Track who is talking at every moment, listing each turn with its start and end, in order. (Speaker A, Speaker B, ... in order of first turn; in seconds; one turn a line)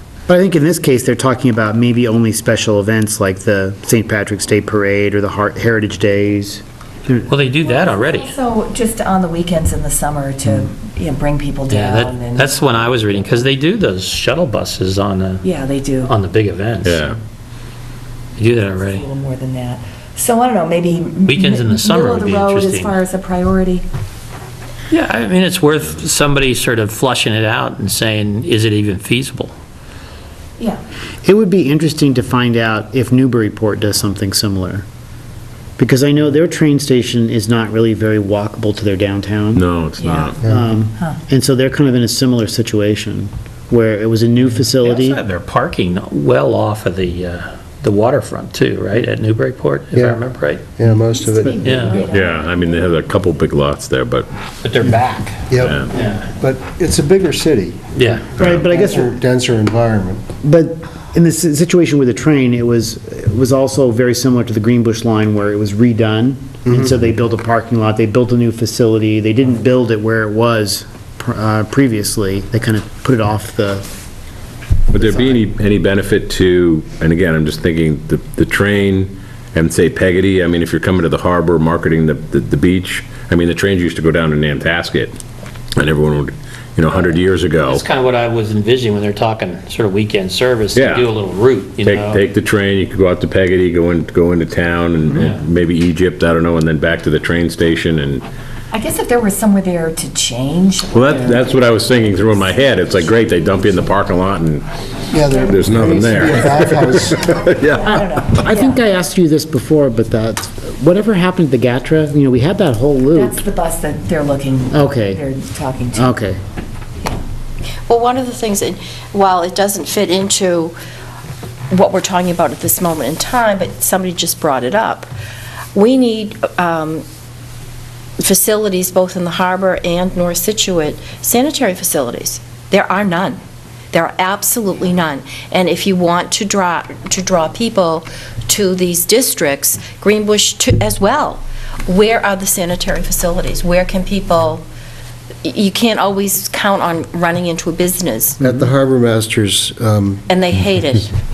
Speaker A: 0.3-7.2
Speaker B: 7.3-8.3
Speaker C: 7.6-12.7
Speaker B: 11.7-15.5
Speaker C: 15.4-16.1
Speaker B: 16.0-17.1
Speaker D: 16.8-17.2
Speaker B: 18.4-19.0
Speaker C: 18.7-23.9
Speaker B: 21.3-22.9
Speaker B: 24.9-29.5
Speaker A: 31.2-34.8
Speaker A: 35.8-39.6
Speaker D: 39.5-40.4
Speaker C: 40.0-41.2
Speaker A: 40.4-45.2
Speaker B: 44.8-50.6
Speaker E: 49.9-50.2
Speaker E: 50.8-51.7
Speaker C: 50.9-53.1
Speaker B: 51.6-52.1
Speaker D: 51.9-54.3
Speaker B: 54.6-55.4
Speaker E: 55.5-57.8
Speaker D: 55.6-56.0
Speaker B: 57.9-58.3
Speaker D: 58.4-58.7
Speaker A: 58.4-59.1
Speaker E: 58.6-60.2
Speaker A: 60.4-73.8
Speaker D: 74.9-85.2
Speaker A: 75.0-75.4
Speaker D: 85.8-87.8
Speaker B: 87.6-92.2
Speaker D: 90.7-91.1
Speaker D: 91.8-98.2
Speaker C: 98.7-103.0
Speaker D: 100.9-104.6
Speaker E: 105.1-107.5
Speaker C: 105.1-105.7
Speaker D: 105.5-107.9
Speaker C: 107.1-108.8
Speaker A: 107.8-113.4
Speaker C: 113.1-116.2
Speaker A: 114.7-115.2
Speaker A: 115.9-116.4
Speaker F: 117.8-120.7
Speaker F: 121.7-125.1
Speaker F: 125.7-127.0
Speaker F: 128.2-133.4
Speaker F: 133.9-144.6
Speaker F: 145.4-148.4
Speaker E: 148.4-150.2
Speaker F: 150.3-151.1